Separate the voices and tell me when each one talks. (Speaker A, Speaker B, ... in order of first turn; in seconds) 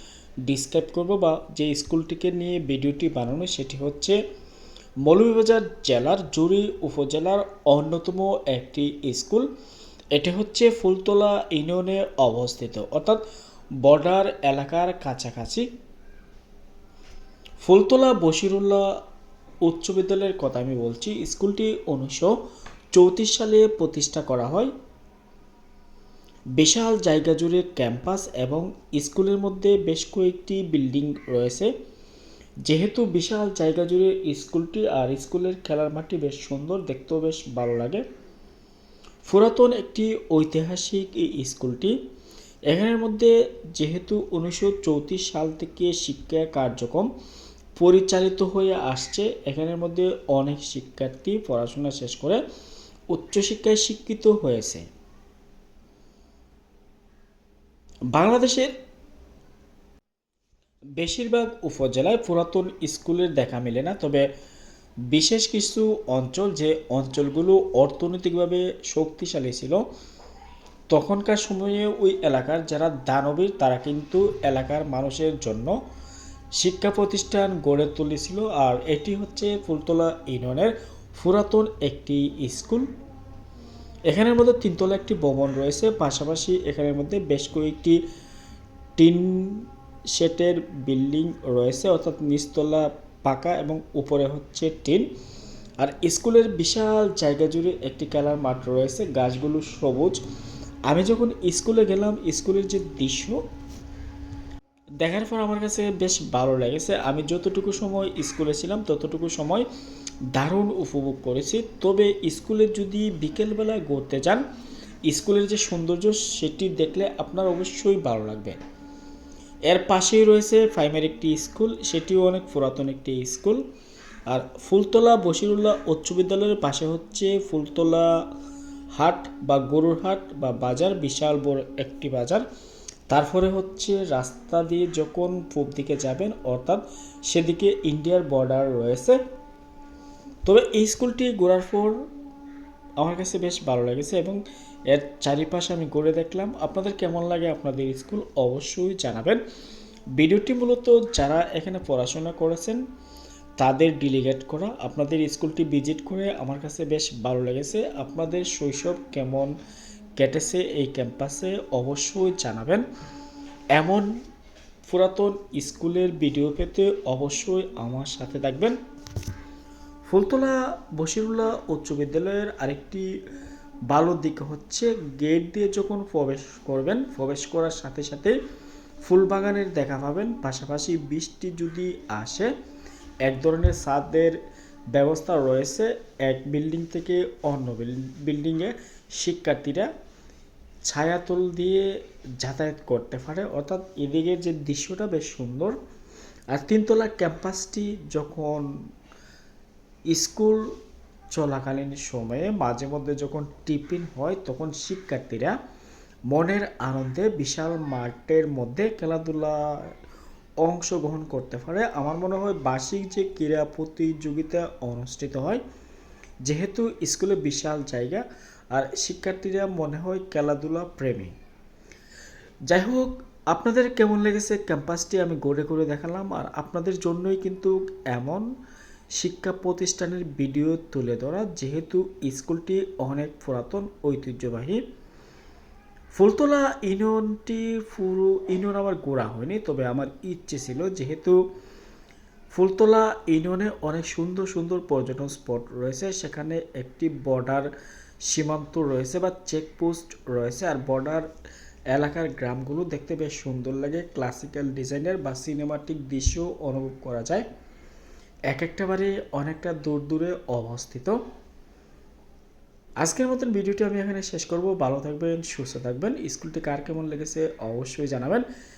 Speaker A: 0.5-4.2, 5.0-9.5, 10.1-13.2, 13.8-15.7, 17.6-18.9, 19.6-22.3, 22.9-24.7, 26.6-31.7, 32.6-38.0, 39.2-42.0, 42.7-47.1, 47.8-52.4, 53.1-54.9, 58.1-58.7, 61.0-64.2, 65.1-69.8, 70.9-75.7, 76.6-82.9, 84.1-88.0, 89.0-95.0, 95.8-100.2, 100.9-103.4, 105.0-109.7, 110.3-114.4, 115.1-118.6, 119.7-123.6, 124.3-128.1, 129.0-132.4, 133.1-139.2, 140.4-141.9, 143.0-149.4, 150.2-152.8, 153.6-159.5, 160.2-162.8, 163.7-164.1, 164.8-168.8, 170.1-173.1, 173.9-178.3, 179.0-182.5, 183.2-184.4, 184.9-189.9, 190.9-195.8, 196.5-198.7, 200.1-200.7, 201.3-205.6, 206.3-209.9, 210.6-215.6, 216.4-221.3, 222.7-228.4, 229.2-234.8, 236.1-241.4, 242.5-247.7, 248.2-251.3, 251.9-257.4, 258.5-261.2, 263.0-268.4